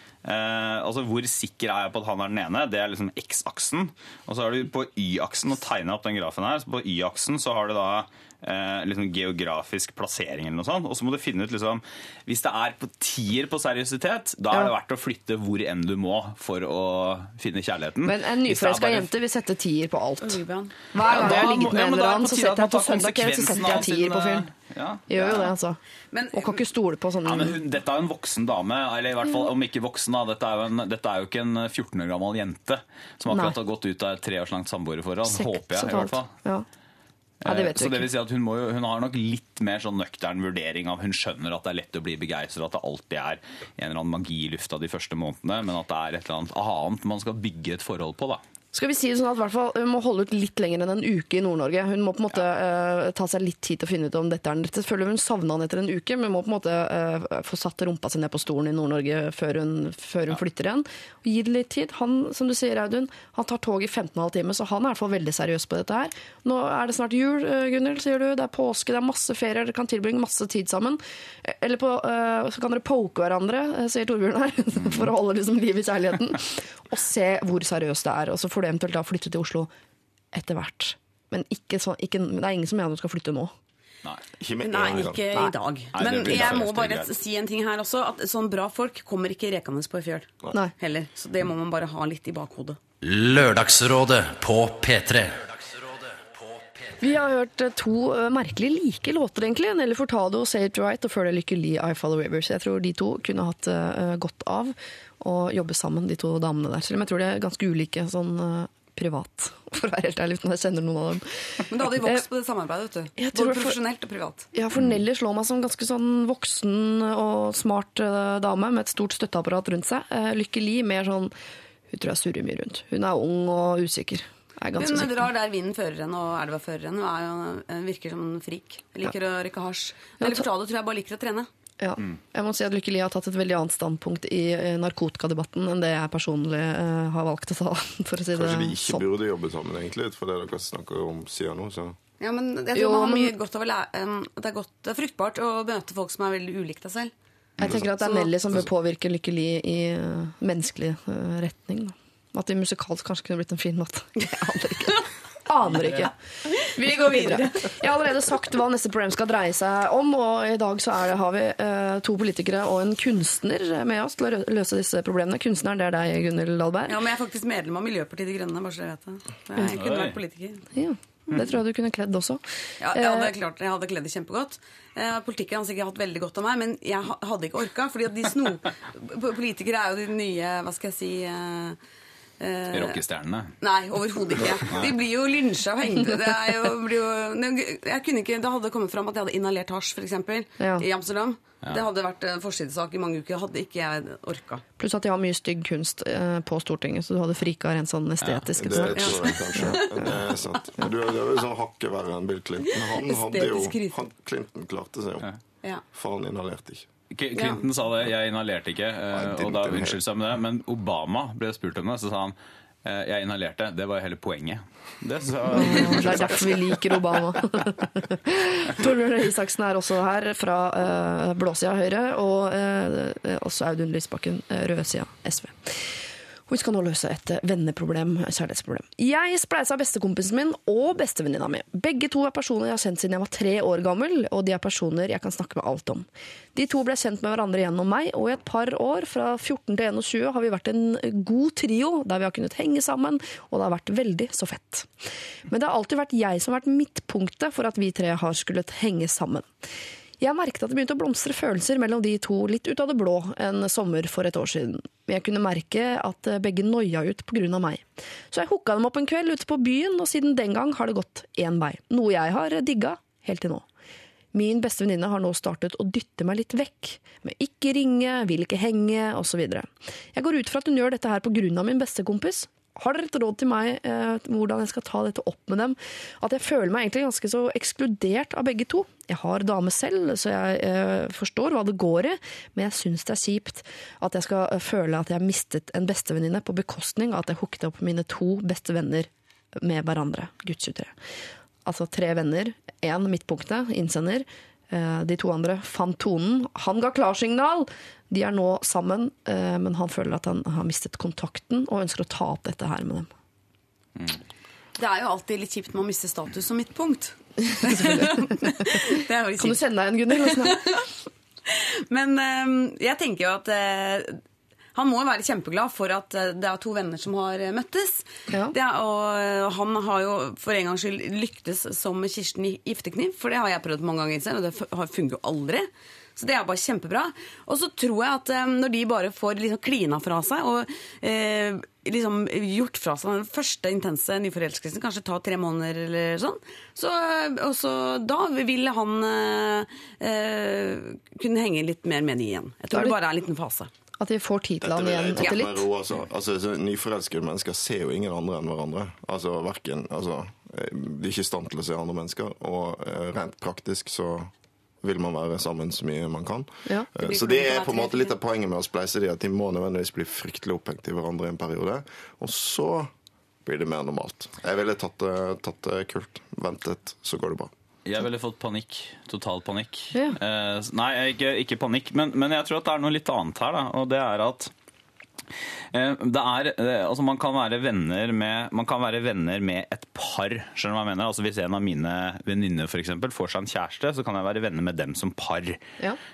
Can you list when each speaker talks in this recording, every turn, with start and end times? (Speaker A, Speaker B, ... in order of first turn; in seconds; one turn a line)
Speaker A: 0.2-19.1
Speaker B: 18.0-24.5
Speaker C: 20.2-20.7
Speaker A: 21.0-25.5
Speaker B: 25.1-25.8
Speaker C: 26.1-26.6
Speaker B: 26.3-27.6
Speaker A: 27.2-36.3
Speaker B: 33.3-33.6
Speaker B: 35.2-36.6
Speaker A: 37.4-48.4
Speaker B: 37.4-38.1
Speaker B: 48.7-79.7
Speaker B: 80.3-83.5
Speaker D: 84.4-86.6
Speaker C: 84.6-92.8
Speaker A: 85.9-87.1
Speaker E: 93.0-96.8
Speaker B: 97.0-112.2
Speaker C: 111.7-114.5
Speaker B: 113.2-113.8
Speaker B: 114.5-121.3
Speaker B: 121.9-125.2
Speaker C: 124.7-131.5
Speaker B: 130.2-130.4
Speaker B: 131.8-139.1
Speaker D: 138.3-142.0
Speaker C: 142.2-147.1
Speaker B: 142.7-143.3
Speaker D: 147.6-148.0
Speaker B: 147.6-166.9
Speaker C: 156.5-157.7
Speaker C: 166.9-170.7
Speaker A: 169.6-170.2
Speaker B: 170.7-172.4
Speaker C: 172.8-181.8
Speaker B: 172.9-173.3
Speaker C: 182.4-183.0
Speaker A: 182.7-183.6
Speaker C: 183.6-194.6
Speaker B: 190.6-190.8
Speaker B: 194.8-199.8
Speaker A: 198.2-198.5
Speaker D: 198.6-205.2
Speaker C: 198.9-200.8
Speaker C: 202.7-204.0
Speaker D: 205.9-206.9
Speaker A: 207.1-216.8
Speaker C: 207.3-207.6
Speaker D: 209.1-210.0
Speaker B: 215.5-225.9
Speaker C: 215.5-216.3
Speaker B: 226.5-244.9
Speaker B: 245.5-249.5
Speaker B: 250.2-263.6
Speaker B: 264.3-290.9
Speaker B: 291.6-303.1
Speaker C: 304.8-309.6
Speaker B: 307.4-308.8
Speaker B: 309.4-310.8
Speaker C: 310.2-310.9
Speaker C: 311.4-314.2
Speaker C: 314.7-343.7
Speaker B: 344.0-345.7
Speaker D: 344.6-354.3
Speaker D: 354.8-362.9
Speaker C: 357.0-358.1
Speaker D: 363.4-367.5
Speaker A: 367.8-374.5
Speaker A: 375.7-385.6